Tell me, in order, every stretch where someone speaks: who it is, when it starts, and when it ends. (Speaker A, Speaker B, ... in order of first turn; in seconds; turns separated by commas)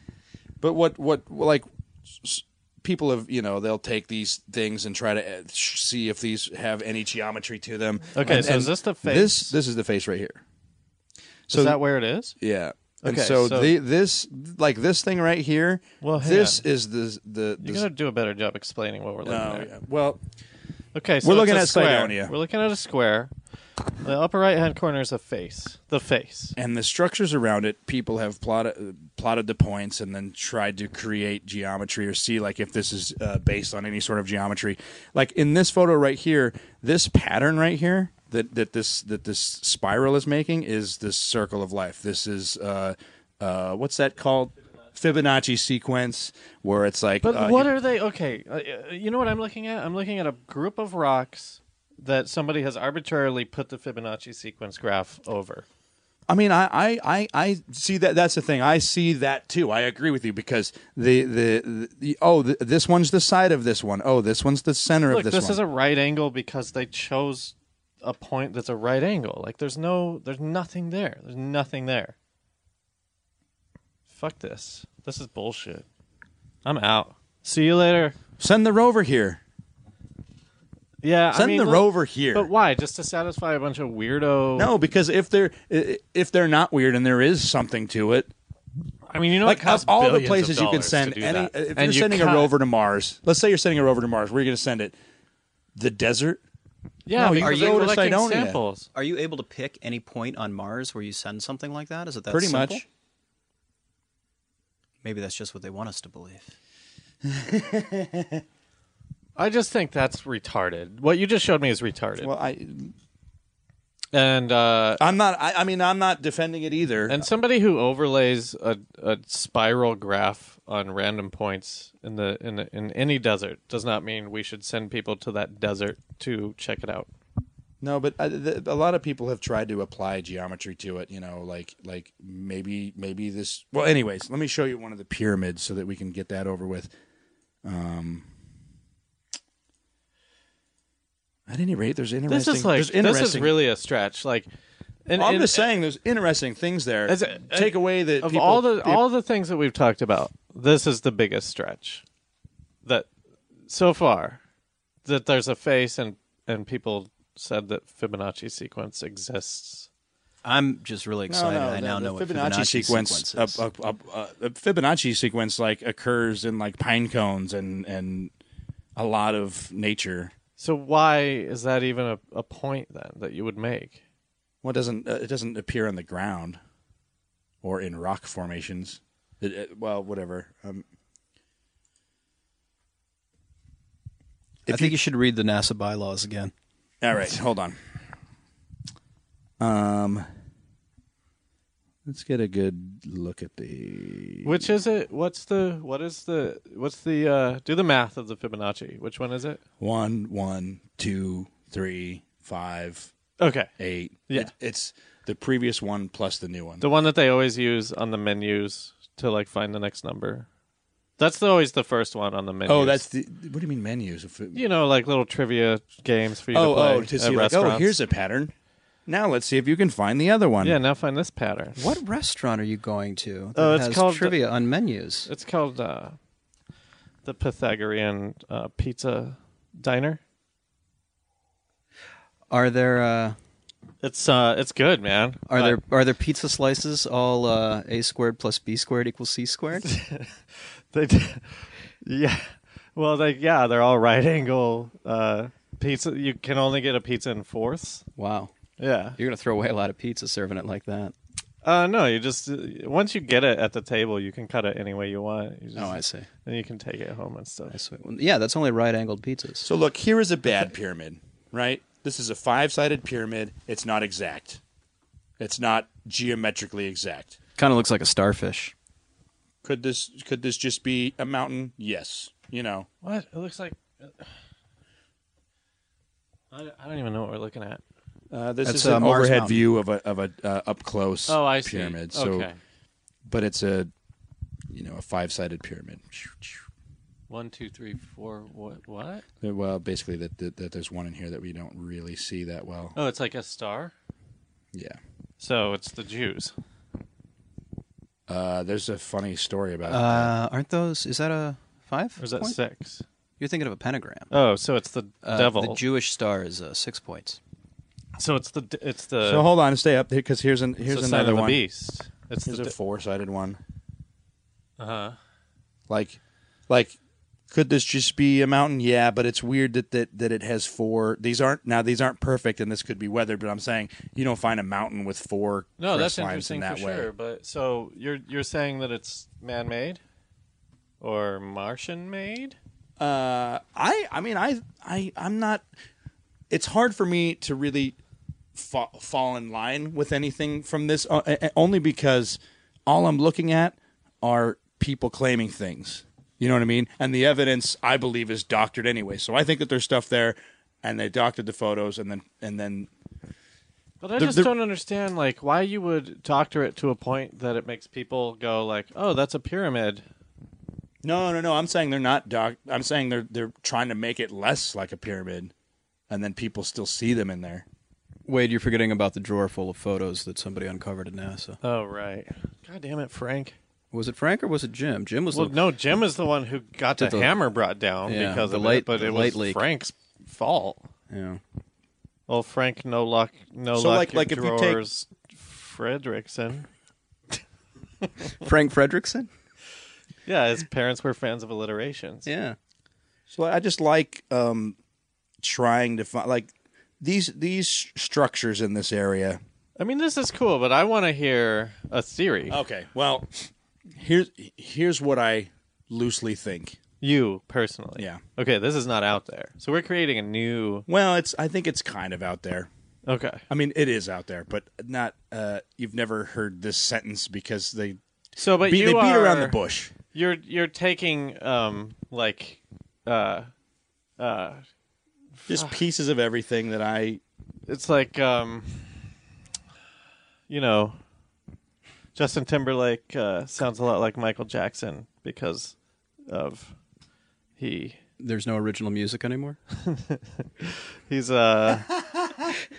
Speaker A: 0.6-10.4, Speaker B: 8.2-9.5, Speaker A: 11.5-11.8, Speaker B: 11.5-12.4, Speaker A: 12.4-17.9, Speaker B: 13.0-13.7, Speaker B: 16.0-16.6, Speaker B: 17.6-19.7, Speaker A: 19.2-20.2, Speaker B: 20.9-23.3, Speaker A: 21.2-22.3, Speaker B: 24.0-26.6, Speaker A: 26.6-47.7, Speaker B: 47.2-55.7, Speaker A: 56.3-65.6, Speaker B: 65.1-72.2, Speaker B: 74.1-75.9, Speaker B: 76.7-78.2, Speaker A: 78.4-79.4, Speaker B: 81.0-84.7, Speaker A: 81.3-82.5, Speaker A: 84.6-88.3, Speaker B: 89.1-92.5, Speaker A: 89.4-95.0, Speaker A: 95.8-96.4, Speaker B: 97.1-98.9, Speaker A: 97.2-98.6, Speaker C: 97.4-98.0, Speaker C: 98.9-102.9, Speaker A: 102.3-102.8, Speaker C: 105.0-106.5, Speaker A: 107.2-108.4, Speaker B: 109.4-112.3, Speaker A: 112.2-112.9, Speaker B: 114.1-115.0, Speaker A: 115.0-117.3, Speaker B: 117.1-127.1, Speaker A: 127.8-136.9, Speaker A: 137.7-138.3, Speaker A: 141.5-143.6, Speaker B: 142.3-144.5, Speaker B: 145.1-145.6, Speaker A: 145.2-149.0, Speaker B: 147.1-152.0, Speaker B: 153.7-154.4, Speaker B: 155.1-159.9, Speaker C: 160.4-163.6, Speaker A: 161.3-168.3, Speaker A: 169.0-170.3, Speaker B: 170.6-174.0, Speaker A: 174.6-176.6, Speaker A: 177.6-180.8, Speaker A: 184.7-185.0, Speaker C: 184.7-186.5, Speaker A: 187.0-187.8, Speaker A: 189.6-190.3, Speaker A: 192.1-194.7, Speaker B: 194.4-199.6, Speaker A: 199.8-203.1, Speaker B: 203.4-203.7, Speaker A: 203.8-206.8, Speaker B: 206.8-210.5, Speaker B: 211.2-213.0, Speaker A: 212.7-214.6, Speaker B: 214.5-218.0, Speaker A: 216.5-218.5, Speaker A: 219.1-220.8, Speaker B: 220.6-221.9, Speaker C: 221.8-225.3, Speaker B: 223.6-224.4, Speaker B: 225.3-226.2, Speaker B: 227.2-230.2, Speaker C: 232.5-233.4, Speaker B: 234.0-235.8, Speaker C: 235.5-239.9, Speaker B: 239.8-240.4, Speaker B: 240.9-248.0, Speaker C: 248.2-248.5, Speaker B: 248.8-249.2, Speaker C: 249.2-251.1, Speaker B: 251.6-257.8, Speaker C: 255.8-256.3, Speaker C: 257.7-259.7, Speaker A: 259.6-264.6, Speaker A: 265.4-267.4, Speaker C: 267.6-268.7, Speaker A: 269.6-272.9, Speaker B: 273.0-274.3, Speaker B: 276.5-277.8, Speaker A: 278.3-282.5, Speaker C: 278.6-279.6, Speaker B: 281.3-282.6, Speaker A: 283.3-283.9, Speaker A: 284.7-286.6, Speaker B: 287.3-289.2, Speaker A: 289.4-293.0, Speaker B: 293.0-293.9, Speaker A: 294.7-295.0, Speaker B: 295.4-296.5, Speaker A: 298.3-300.3, Speaker C: 299.9-302.6, Speaker B: 302.2-303.1, Speaker C: 303.4-304.3, Speaker B: 304.3-305.8, Speaker C: 305.2-307.4, Speaker B: 308.2-309.5, Speaker A: 309.2-311.6, Speaker B: 310.9-312.7, Speaker A: 312.5-313.6, Speaker B: 314.8-315.2, Speaker A: 315.9-317.0, Speaker A: 317.5-327.1, Speaker B: 325.8-330.0, Speaker B: 331.0-332.6, Speaker A: 333.0-335.6, Speaker A: 336.5-338.0, Speaker A: 338.6-352.9, Speaker B: 354.0-360.0, Speaker A: 354.2-354.5, Speaker A: 361.0-365.5, Speaker A: 366.1-367.7, Speaker C: 368.3-371.6, Speaker B: 371.6-373.6, Speaker C: 373.9-375.6, Speaker B: 375.3-380.9, Speaker C: 377.0-377.3, Speaker C: 378.1-379.6, Speaker C: 381.1-381.4, Speaker B: 382.3-386.7, Speaker A: 383.7-384.8, Speaker C: 388.4-389.3, Speaker B: 390.3-392.3, Speaker C: 392.2-392.6, Speaker A: 393.3-394.8, Speaker A: 395.4-399.4, Speaker B: 399.8-402.6, Speaker A: 402.5-406.8, Speaker B: 407.0-410.9, Speaker A: 410.9-412.7, Speaker B: 413.1-413.4, Speaker A: 413.5-418.0, Speaker B: 418.4-419.6, Speaker A: 418.6-419.9, Speaker B: 420.1-423.5, Speaker B: 424.2-424.6, Speaker B: 425.4-425.8, Speaker A: 425.5-427.2, Speaker B: 427.7-429.1, Speaker B: 430.5-431.0, Speaker B: 432.1-435.8, Speaker B: 436.3-436.8, Speaker B: 437.6-438.0, Speaker C: 438.2-439.6, Speaker B: 439.8-441.9